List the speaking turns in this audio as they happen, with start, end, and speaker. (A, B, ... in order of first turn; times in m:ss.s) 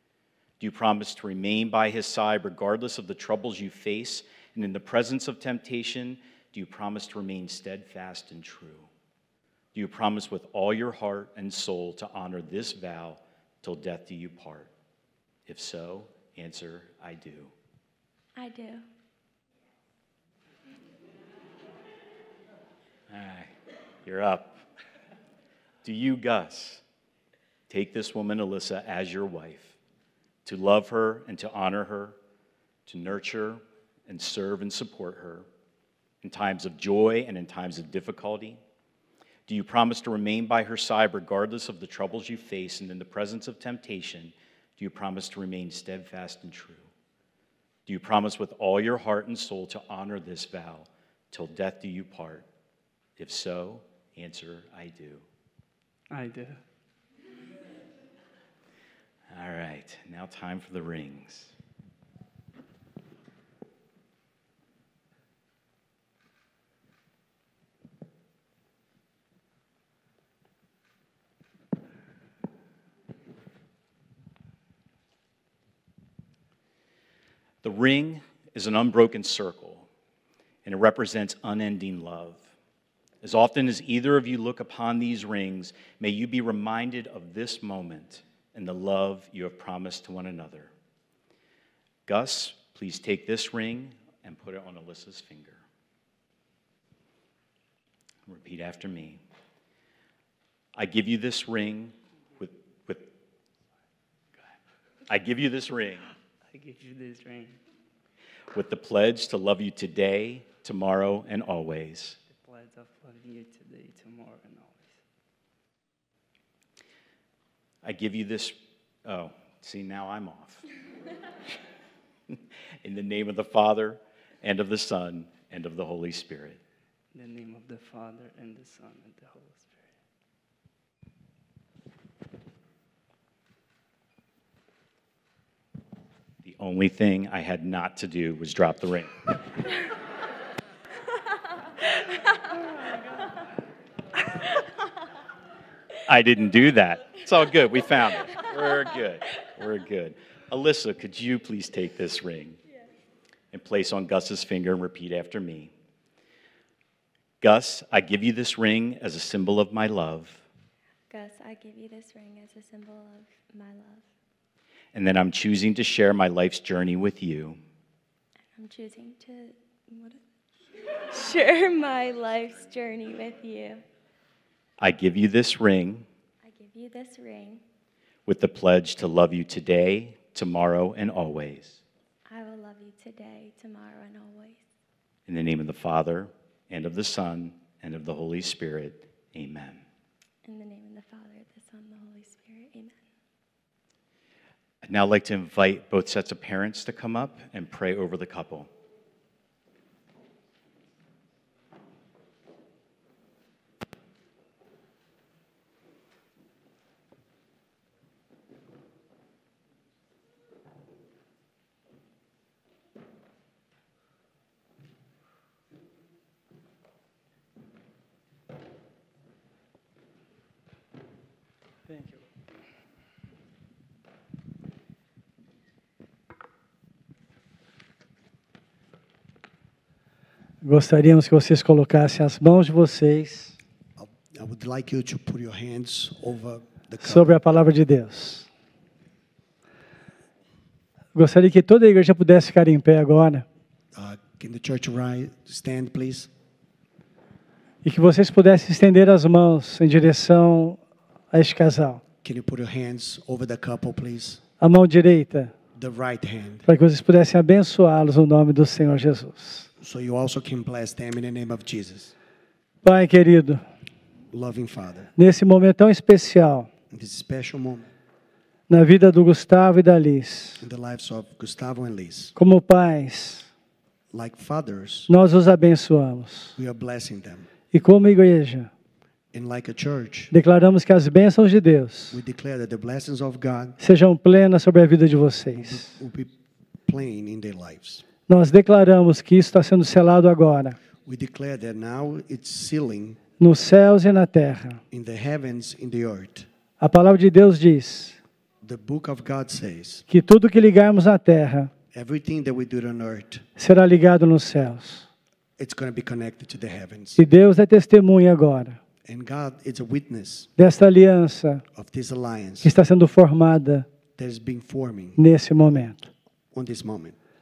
0:00.6-0:08.9 A
0:09.7-0:14.7 A
0:15.4-0:17.5 A
0:18.4-0:18.8 B
0:23.1-0:23.5 A
0:24.0-0:24.6 A
0:25.8-0:26.8 A
0:27.7-0:29.8 A
0:30.4-0:32.2 A
0:32.9-0:35.4 A
0:36.2-0:38.6 A
0:39.5-0:46.8 A
0:47.8-0:52.4 A
0:53.2-0:55.2 A
0:56.1-0:56.6 C
0:59.3-1:01.5 A
1:17.6-1:19.9 A
1:20.6-1:22.4 A
1:23.2-1:30.7 A
1:32.0-1:35.6 A
1:38.3-1:39.2 A
1:40.8-1:43.1 A
1:45.1-1:46.1 A
1:46.5-1:47.6 C
1:48.5-1:52.2 A
1:52.3-1:55.0 C
1:57.8-2:00.6 A
2:02.3-2:06.6 A
2:07.1-2:09.9 C
2:16.4-2:19.3 A
2:26.0-2:32.6 A
2:33.5-2:35.7 A
2:37.4-2:40.4 A
2:41.1-2:44.1 B
2:44.9-2:47.6 A
2:48.5-2:50.2 B
2:51.1-2:53.8 B
2:54.8-2:56.0 A
2:56.4-2:57.6 B
2:58.3-3:01.8 A
3:02.3-3:04.6 B
3:05.3-3:09.8 A
3:10.4-3:13.0 B
3:14.8-3:18.7 A
3:50.6-3:53.5 D
3:54.0-3:57.4 E
3:57.0-3:58.5 D
4:01.1-4:03.4 D
4:03.9-4:06.3 E
4:07.8-4:10.8 D
4:11.3-4:12.0 D
4:12.2-4:14.4 E
4:14.6-4:15.5 D
4:15.7-4:16.6 E
4:16.6-4:19.7 D
4:19.8-4:22.1 E
4:22.8-4:23.6 D
4:24.3-4:25.1 E
4:25.2-4:26.7 D
4:26.9-4:27.9 E
4:28.7-4:30.6 D
4:30.6-4:32.3 E
4:32.4-4:33.5 D
4:34.1-4:35.1 E
4:35.1-4:36.6 D
4:36.6-4:37.4 E
4:37.7-4:38.7 D
4:39.3-4:40.3 E
4:40.3-4:42.2 D
4:42.1-4:43.8 E
4:43.8-4:46.0 D
4:45.5-4:46.3 E
4:46.8-4:48.0 E
4:48.3-4:50.8 D
4:51.0-4:53.2 E
4:53.4-4:54.8 D
4:54.9-4:56.5 E
4:56.8-4:58.2 D
4:58.6-5:00.0 E
5:00.1-5:01.7 D
5:01.9-5:03.4 E
5:03.6-5:05.1 D
5:05.6-5:07.2 E
5:07.2-5:08.8 D
5:09.0-5:10.5 E
5:10.6-5:11.6 D
5:11.7-5:12.7 E
5:12.6-5:13.8 D
5:14.2-5:15.2 E
5:15.2-5:16.1 D
5:16.5-5:17.1 E